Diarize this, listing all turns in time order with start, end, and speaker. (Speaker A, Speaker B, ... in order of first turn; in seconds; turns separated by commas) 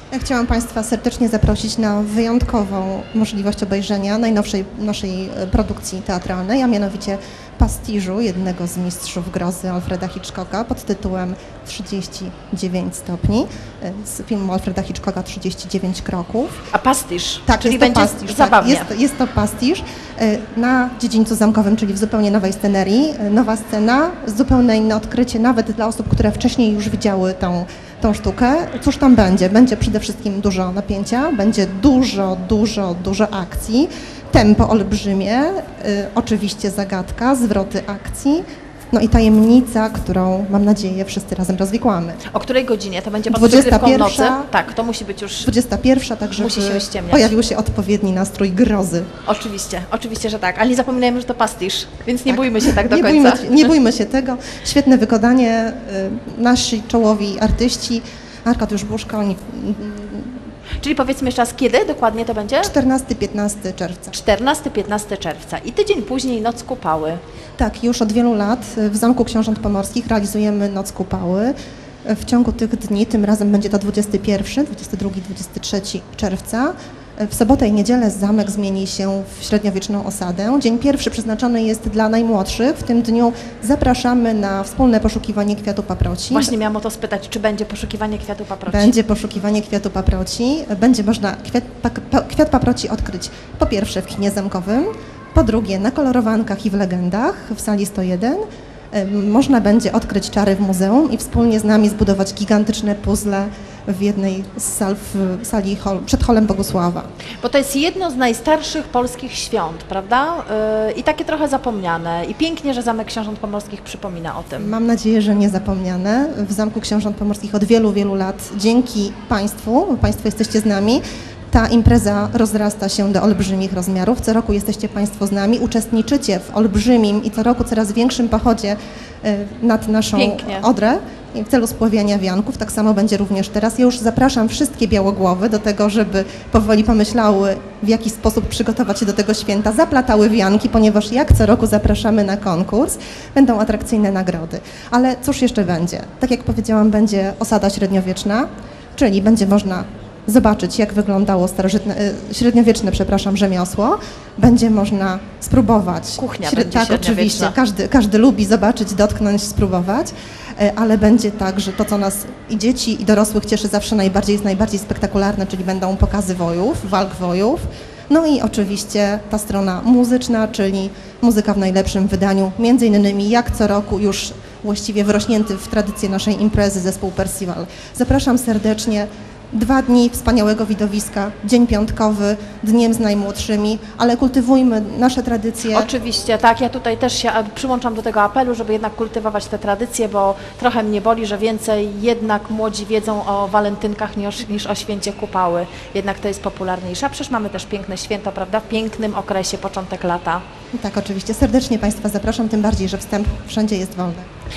Speaker A: 0.1-16.6, Speaker B: 16.7-18.9, Speaker A: 17.5-42.2, Speaker B: 42.3-45.5, Speaker A: 43.3-44.5, Speaker A: 45.4-49.1, Speaker B: 46.4-47.3, Speaker B: 49.2-53.7, Speaker A: 52.3-60.4, Speaker B: 60.8-62.7, Speaker A: 62.6-64.2, Speaker B: 64.1-67.2, Speaker A: 67.6-86.5, Speaker B: 86.3-88.9, Speaker A: 88.7-98.4, Speaker A: 98.9-107.1, Speaker B: 107.4-114.8, Speaker A: 114.6-185.9, Speaker B: 130.1-130.7, Speaker B: 156.2-157.6, Speaker B: 185.7-200.4, Speaker A: 200.7-204.3